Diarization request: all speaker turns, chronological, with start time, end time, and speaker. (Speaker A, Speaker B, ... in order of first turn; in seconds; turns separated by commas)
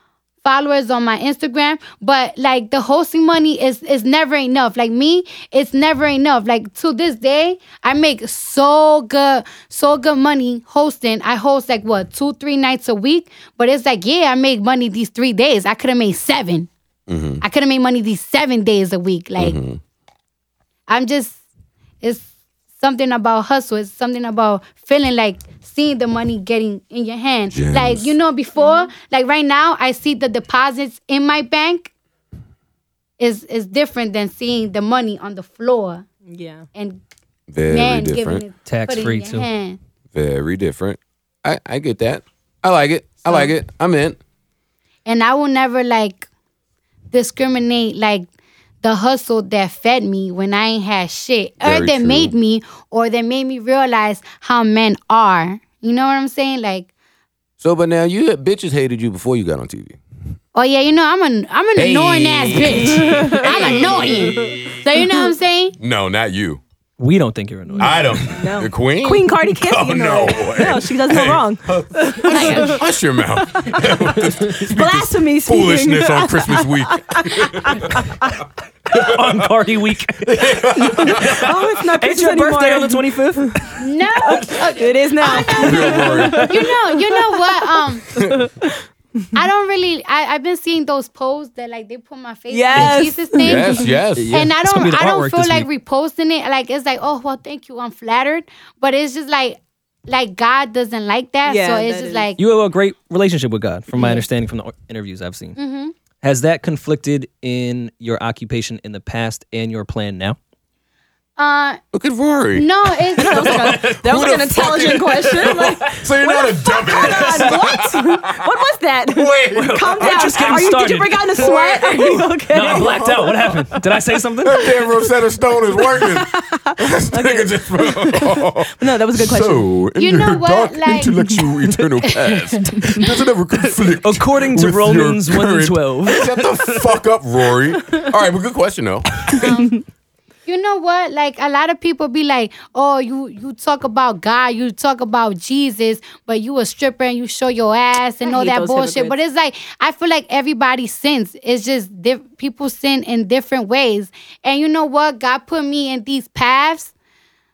Speaker A: 0.4-16.7, Speaker B: 17.1-17.4, Speaker A: 17.4-19.6, Speaker B: 19.4-19.8, Speaker A: 20.9-21.4, Speaker A: 22.0-22.3, Speaker A: 22.8-31.9, Speaker B: 27.5-28.1, Speaker C: 28.6-28.9, Speaker A: 33.2-36.0, Speaker C: 36.3-36.6, Speaker A: 36.7-37.0, Speaker B: 37.5-38.4, Speaker A: 37.7-39.8, Speaker D: 38.6-39.5, Speaker B: 40.1-44.2, Speaker A: 45.0-46.2, Speaker A: 47.1-48.3, Speaker A: 48.8-56.9, Speaker B: 51.6-52.3, Speaker B: 57.6-60.0, Speaker A: 60.5-65.8, Speaker B: 61.8-64.8, Speaker C: 62.8-64.6, Speaker B: 65.8-66.6, Speaker D: 67.0-68.2, Speaker C: 67.8-72.8, Speaker B: 67.8-78.1, Speaker A: 72.3-72.8, Speaker C: 73.4-78.3, Speaker B: 78.9-79.4, Speaker D: 78.9-84.5, Speaker B: 80.2-81.5, Speaker C: 80.8-83.5, Speaker A: 83.8-88.0, Speaker C: 84.2-88.8, Speaker D: 85.4-86.4, Speaker B: 85.5-86.5, Speaker A: 89.3-102.4, Speaker C: 92.5-93.8, Speaker B: 93.4-94.5, Speaker D: 94.2-95.7, Speaker C: 101.4-102.3, Speaker D: 102.4-105.5, Speaker A: 105.6-105.9, Speaker D: 106.2-110.4, Speaker A: 111.4-111.8, Speaker B: 111.9-118.4, Speaker A: 112.5-113.7, Speaker C: 113.2-123.1, Speaker D: 113.4-113.8, Speaker D: 116.9-117.8, Speaker B: 119.1-120.7, Speaker D: 119.5-121.6, Speaker B: 121.4-123.8, Speaker D: 122.5-124.7, Speaker B: 124.4-139.4, Speaker C: 125.9-129.7, Speaker A: 130.0-131.2, Speaker D: 134.0-136.8, Speaker C: 139.3-139.8, Speaker A: 139.3-139.8, Speaker A: 140.4-156.9, Speaker C: 148.2-149.2